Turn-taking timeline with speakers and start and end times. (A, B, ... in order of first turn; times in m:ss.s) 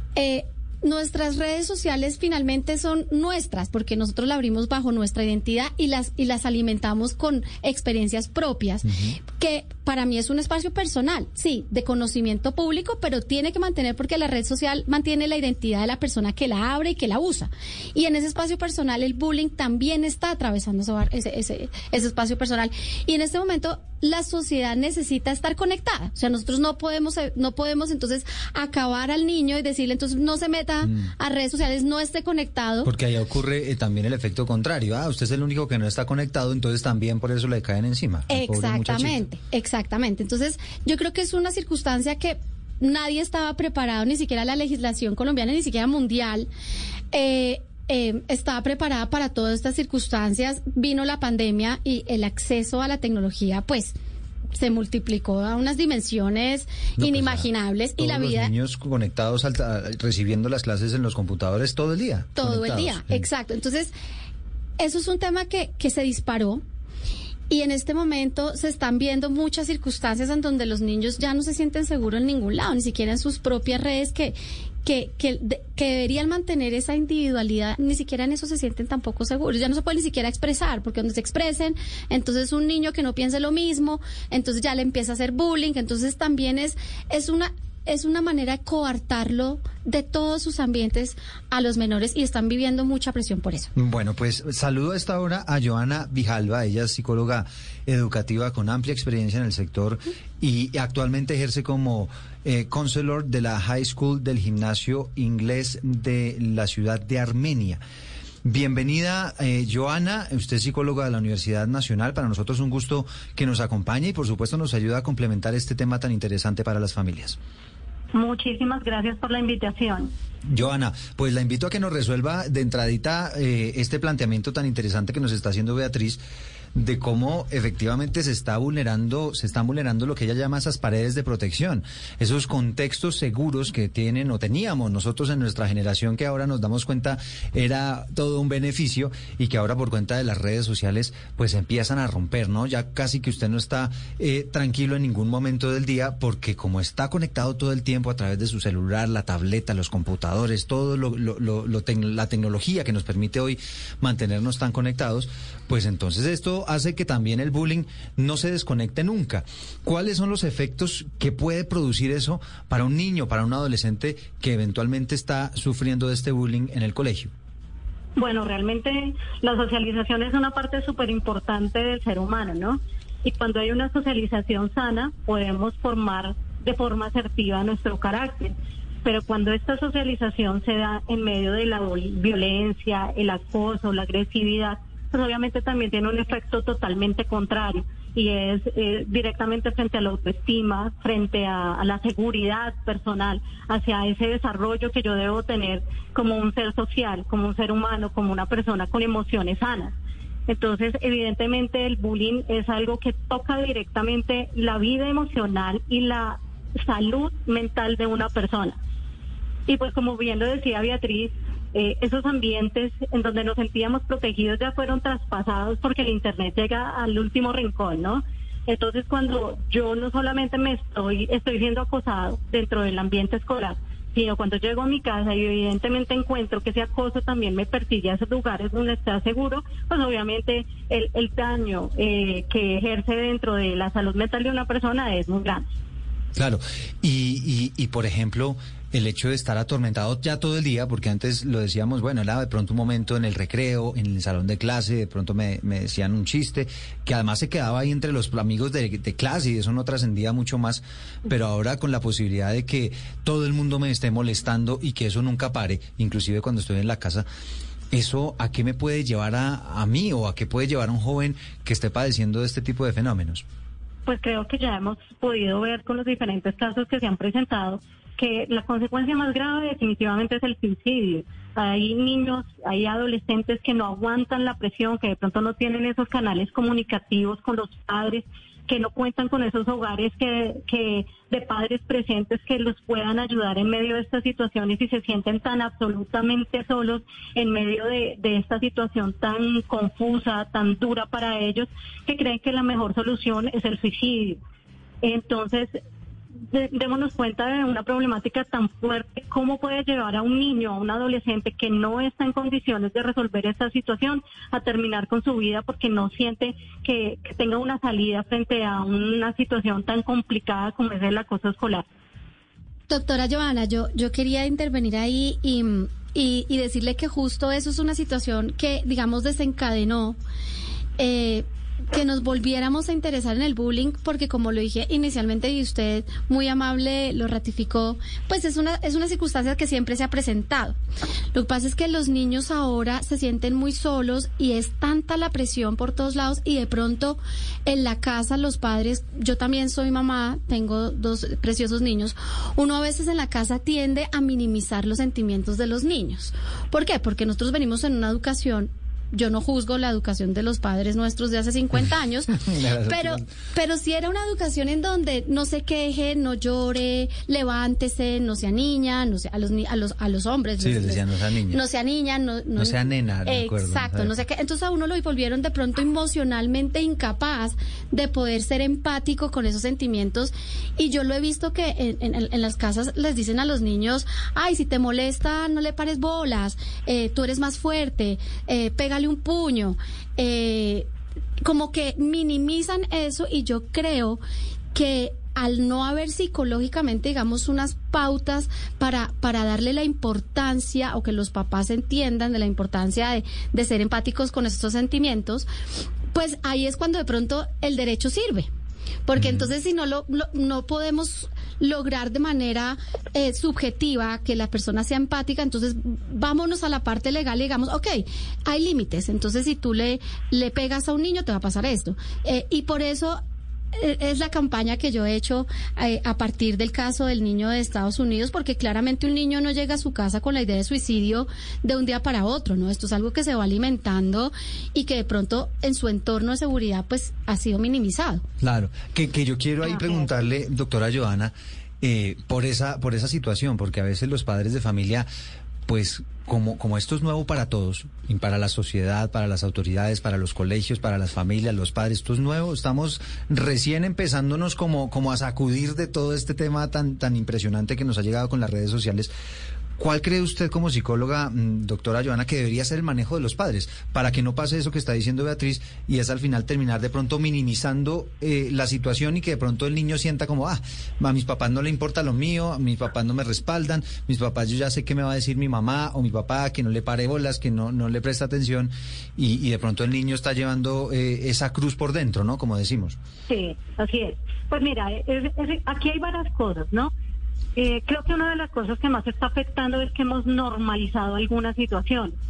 0:00.2-0:32.9 A
0:08.9-0:09.2 B
0:30.8-0:31.1 B
0:32.8-0:39.2 B
0:38.3-0:46.5 A
0:47.1-0:54.0 A
0:54.6-0:58.5 A
0:57.0-1:03.3 B
1:02.4-1:03.9 A
1:04.8-1:06.6 A
1:07.5-1:33.7 A
1:33.8-1:47.8 B
1:48.4-1:57.4 B
1:58.1-2:00.1 C
2:00.5-2:06.2 B
2:06.7-2:47.3 B
2:48.2-3:20.0 C
3:20.5-3:28.8 C
3:29.7-3:55.7 C
3:56.4-4:17.3 B
4:17.9-4:23.4 B
4:24.1-4:54.4 C
4:55.0-4:55.8 C
4:56.5-5:11.8 C
5:12.9-5:20.2 A
5:21.0-5:30.8 A
5:31.3-6:20.9 A
5:52.3-5:53.3 B
6:00.6-6:01.6 B
6:02.6-6:04.2 B
6:21.4-6:24.2 A
6:24.7-6:35.5 A
6:36.1-6:38.5 A
6:39.1-6:53.2 A
6:39.2-6:39.5 B
6:53.7-7:08.2 A
7:08.4-7:15.1 B
7:15.7-7:29.1 B
7:29.8-7:53.0 B
7:53.3-7:56.9 C
7:57.6-8:02.1 C